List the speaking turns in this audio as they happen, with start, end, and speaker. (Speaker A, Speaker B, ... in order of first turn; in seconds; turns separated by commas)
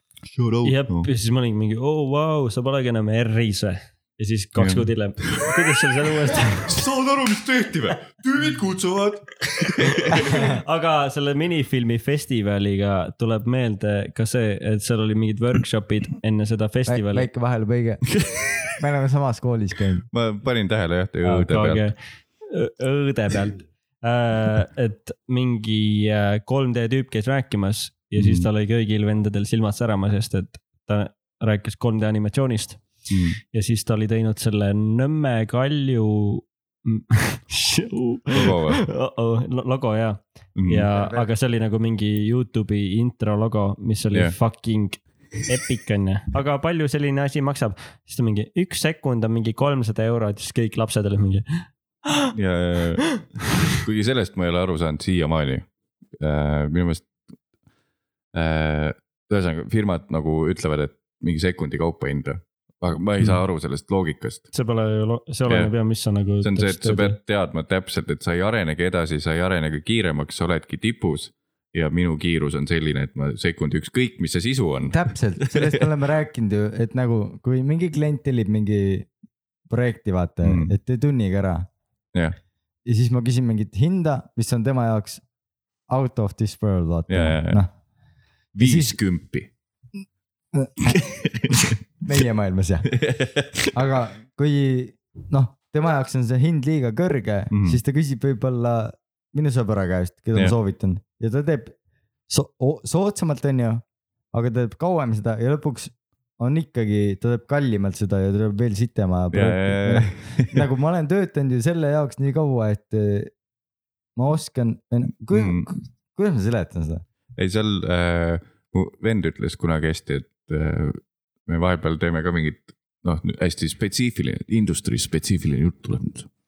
Speaker A: 0.2-1.1, Speaker B: 0.6-6.8, Speaker A: 4.6-5.5, Speaker A: 6.3-10.5, Speaker B: 9.9-17.3, Speaker C: 10.2-10.5, Speaker C: 16.9-18.1, Speaker A: 18.2-18.8, Speaker C: 18.7-20.1, Speaker A: 20.1-21.9, Speaker B: 21.2-32.8, Speaker A: 28.1-28.5, Speaker A: 33.1-33.4, Speaker B: 33.5-52.3, Speaker A: 38.3-38.8, Speaker A: 40.5-40.9, Speaker C: 40.9-41.3, Speaker A: 52.3-55.6, Speaker A: 56.2-57.1, Speaker A: 58.3-64.5, Speaker B: 64.5-67.2, Speaker A: 66.4-75.8, Speaker C: 74.9-79.1, Speaker C: 79.7-81.7, Speaker A: 80.4-80.7, Speaker C: 82.8-85.2, Speaker C: 85.9-87.7, Speaker A: 87.1-87.6, Speaker A: 88.5-89.5, Speaker C: 88.6-89.0, Speaker C: 90.5-91.0, Speaker A: 90.8-91.7, Speaker C: 92.0-92.9, Speaker A: 92.9-93.7, Speaker C: 93.7-101.7, Speaker A: 97.5-97.8, Speaker C: 102.3-113.3, Speaker A: 109.3-110.6, Speaker C: 114.2-117.0, Speaker A: 115.3-115.7, Speaker A: 117.4-126.3